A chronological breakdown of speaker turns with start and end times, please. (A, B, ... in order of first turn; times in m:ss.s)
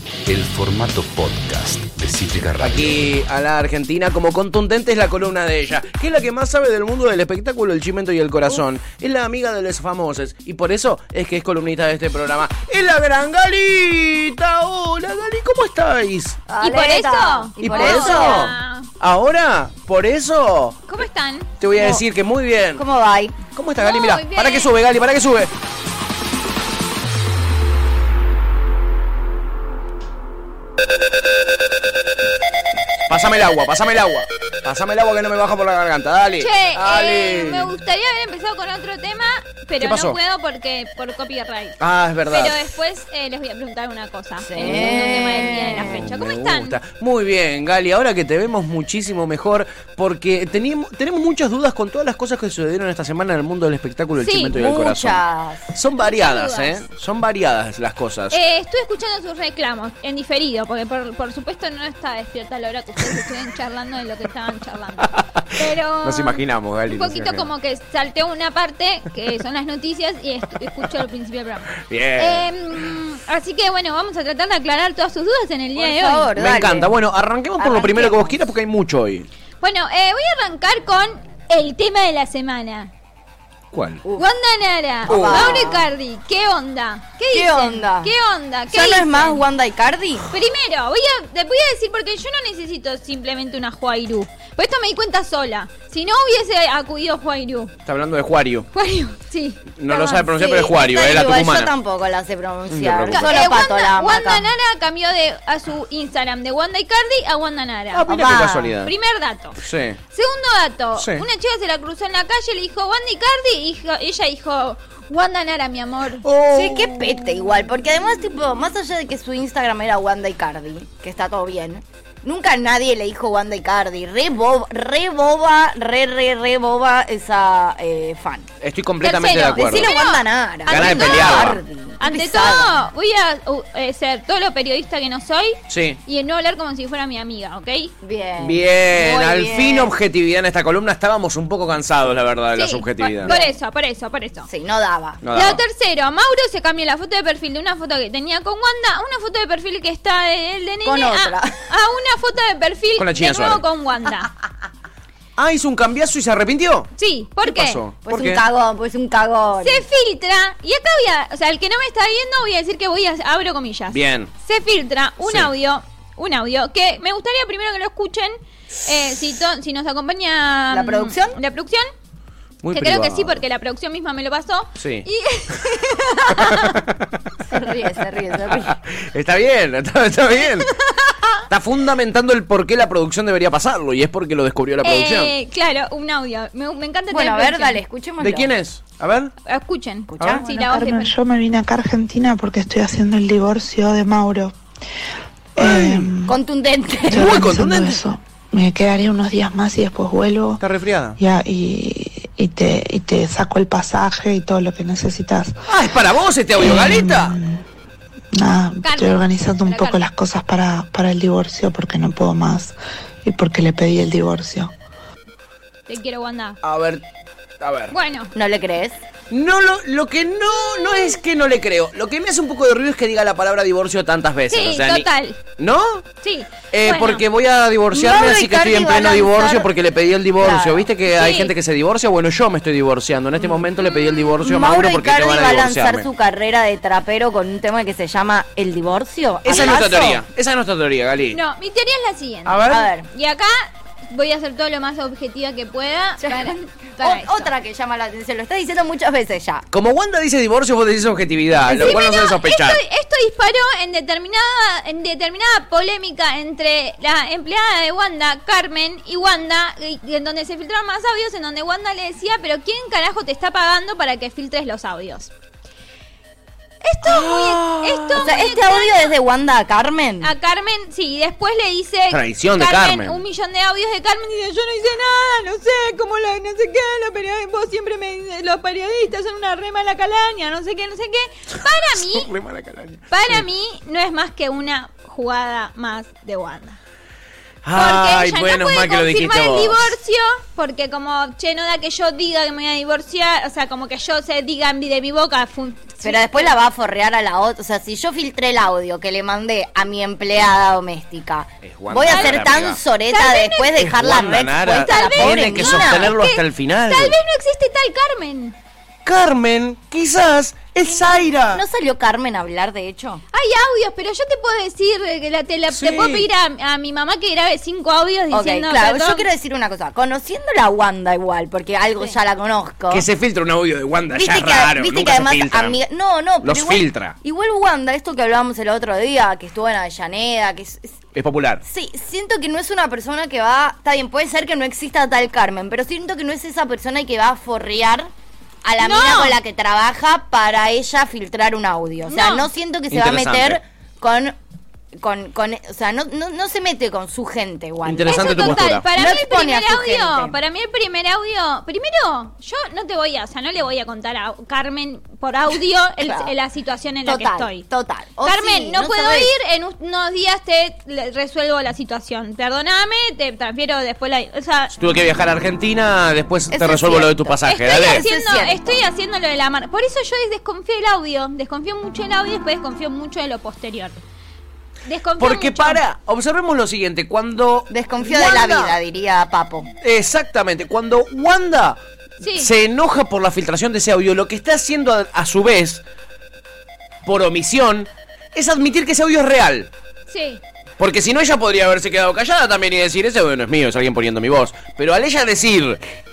0:00.3-0:03.1 A
0:02.6-0:16.4 B
0:16.5-0:18.5 C
0:16.6-0:18.9 D
0:17.6-0:20.9 B
0:20.9-0:21.5 D
0:21.6-0:22.8 B
0:21.8-0:22.0 C
0:22.8-0:23.4 C
0:23.5-0:25.5 B
0:23.8-0:24.7 D
0:33.1-0:37.7 B
0:36.4-0:41.8 D
0:39.8-0:40.2 B
0:41.8-0:42.7 B
0:42.3-0:46.8 D
0:44.5-0:46.0 C
0:44.6-0:55.2 B
0:54.2-0:54.6 D
0:54.6-0:55.7 C
0:55.7-0:58.4 B
0:56.0-0:56.8 D
0:58.3-1:16.3 D
1:05.1-1:07.5 B
1:11.8-1:12.5 B
1:15.8-1:16.9 C
1:16.4-1:19.3 B
1:17.6-1:18.4 C
1:19.6-1:22.9 D
1:23.7-1:24.0 B
1:24.2-1:29.4 D
1:25.0-1:25.9 C
1:25.1-1:25.7 B
1:27.3-1:28.1 C
1:28.7-1:30.3 C
1:30.3-1:37.7 D
1:37.9-1:38.7 B
1:38.7-1:40.6 D
1:39.8-1:41.7 B
1:40.4-1:44.5 C
1:42.7-1:43.5 B
1:43.1-1:48.1 D
1:48.0-1:48.9 B
1:48.0-1:48.8 C
1:48.8-1:49.6 D
1:49.6-1:50.0 B
1:50.1-1:56.3 D
1:51.0-1:51.3 B
1:56.2-1:57.3 B
1:56.5-2:08.5 C
2:08.6-2:09.9 B
2:09.0-2:17.9 D
2:09.5-2:12.8 C
2:10.7-2:11.6 B
2:15.7-2:16.0 B
2:18.0-2:19.9 C
2:18.4-2:23.3 B
2:22.5-2:24.5 D
2:23.2-2:23.6 C
2:24.5-2:25.2 C
2:25.2-2:25.6 B
2:25.3-2:34.3 D
2:30.8-2:31.6 C
2:33.0-2:33.6 B
2:35.4-2:36.9 B
2:37.0-2:37.8 D
2:37.4-2:38.4 B
2:38.1-2:39.8 C
2:39.6-2:51.9 D
2:43.9-2:44.3 B
2:45.2-2:45.5 B
2:50.7-2:51.4 C
2:52.6-2:53.4 B
2:52.7-2:56.8 D
2:54.8-2:55.1 B
2:56.4-2:57.1 B
2:57.5-2:58.8 C
2:58.4-3:00.7 B
3:00.4-3:01.4 D
3:01.5-3:05.3 B
3:04.8-3:07.8 D
3:07.1-3:08.5 C
3:08.2-3:09.3 B
3:09.4-3:11.1 D
3:10.1-3:10.5 C
3:10.4-3:14.6 E
3:15.6-3:16.1 B
3:15.6-3:16.4 E
3:16.3-3:17.5 C
3:17.1-3:20.6 E
3:17.1-3:18.0 B
3:20.6-3:21.2 B
3:21.2-3:25.6 E
3:25.7-3:27.4 B
3:26.6-3:27.6 E
3:28.3-3:34.7 E
3:28.8-3:30.0 D
3:35.9-3:36.6 D
3:36.6-3:37.0 B
3:37.6-3:38.0 B
3:37.9-3:38.3 D
3:38.3-3:39.0 C
3:39.3-3:45.1 B
3:44.5-3:45.4 D
3:45.6-3:46.0 B
3:46.2-3:47.2 D
3:46.7-3:56.1 B
3:47.9-3:49.7 C
3:50.4-3:50.9 C
3:51.1-3:51.5 D
3:53.8-3:54.4 D
3:54.4-4:00.2 C
3:59.4-4:01.4 B
4:01.3-4:07.5 D
4:02.5-4:02.9 B
4:02.7-4:03.1 C
4:06.2-4:09.7 C
4:09.7-4:12.8 B
4:11.7-4:12.0 C
4:11.7-4:25.3 D
4:26.8-4:29.2 D
4:27.0-4:28.4 B
4:28.2-4:30.3 C
4:30.2-4:42.3 D
4:32.1-4:33.2 B
4:42.0-4:43.4 B
4:43.1-4:46.8 D
4:47.6-4:49.9 B
4:47.8-4:56.6 D
4:56.0-5:06.1 C
5:01.6-5:02.8 B
5:02.1-5:02.5 D
5:03.1-5:03.8 D
5:03.8-5:07.2 B
5:04.7-5:08.6 D
5:09.0-5:11.6 B
5:11.5-5:13.2 C
5:13.3-5:19.3 D
5:15.7-5:16.3 B
5:18.3-5:23.1 C
5:22.9-5:25.8 B
5:24.1-5:31.0 C
5:26.4-5:27.2 B
5:31.1-5:31.6 B
5:31.6-5:38.1 C
5:38.6-5:44.4 C
5:38.8-5:39.4 D
5:42.0-5:42.5 D
5:42.9-5:43.6 B
5:45.0-5:50.4 C
5:47.8-5:48.9 B
5:48.1-5:57.7 D
5:56.0-5:56.3 C
5:57.0-5:59.3 C
5:58.2-6:04.7 D
6:04.8-6:08.0 B
6:06.5-6:08.8 C
6:07.5-6:14.0 D
6:14.9-6:15.8 D
6:15.2-6:18.8 B
6:17.7-6:19.7 C
6:19.8-6:21.8 B
6:22.2-6:22.5 D
6:22.4-6:25.8 B
6:27.0-6:29.7 B
6:30.1-6:30.4 D
6:30.8-6:35.8 B